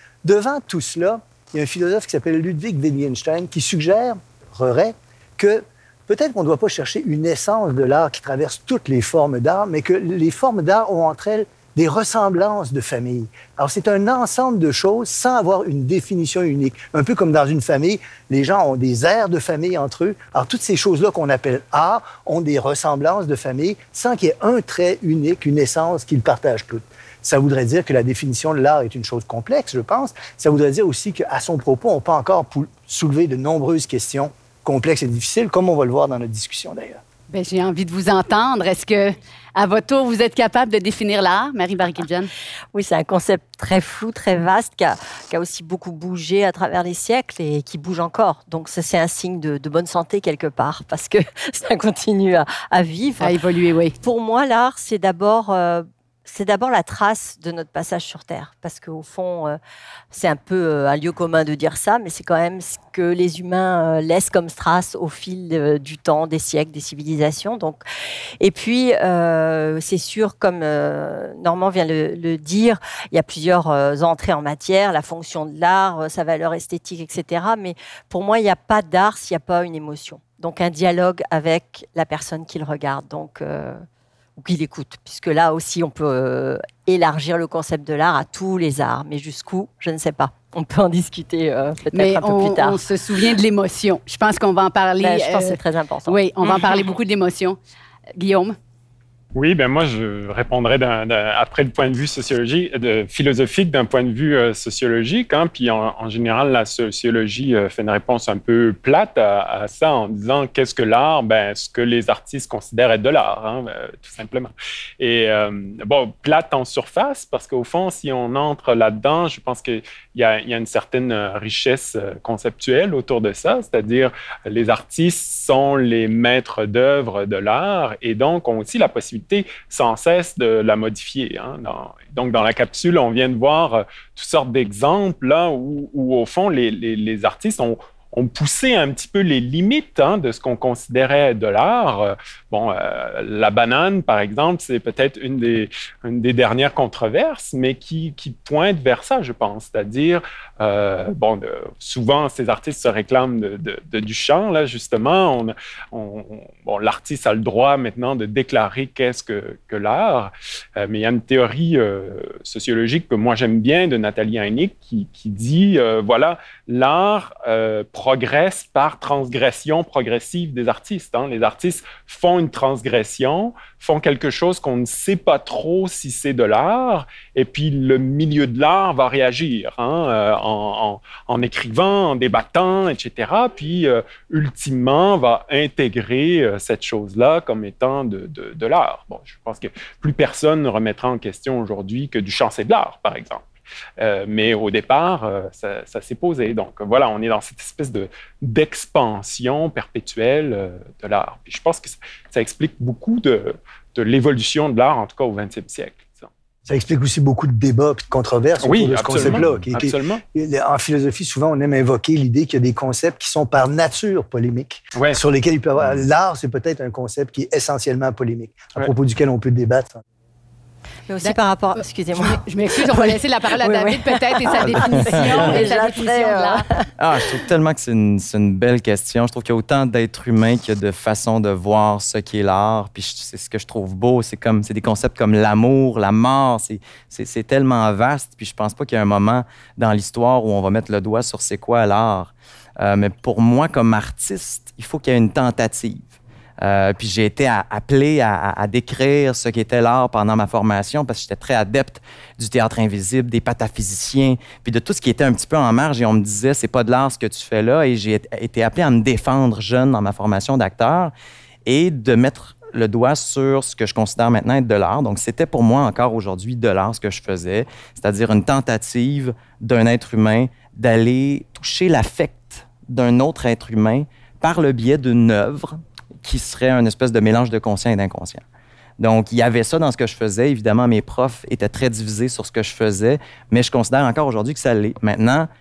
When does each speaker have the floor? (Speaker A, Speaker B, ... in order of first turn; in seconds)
Speaker A: 0.2-37.0, 206.7-220.0
Speaker B: 37.3-42.3, 53.2-54.0, 91.9-97.6, 98.2-98.5, 222.1-226.6
Speaker C: 42.7-53.4, 54.0-59.6, 60.1-67.8, 68.4-83.8, 84.4-92.8, 95.0-96.2, 221.1-227.3
Speaker D: 99.3-193.4, 194.0-206.3, 208.6-210.2
Speaker E: 225.0-225.4, 227.0-246.1, 246.6-261.1, 261.6-278.4, 279.0-285.5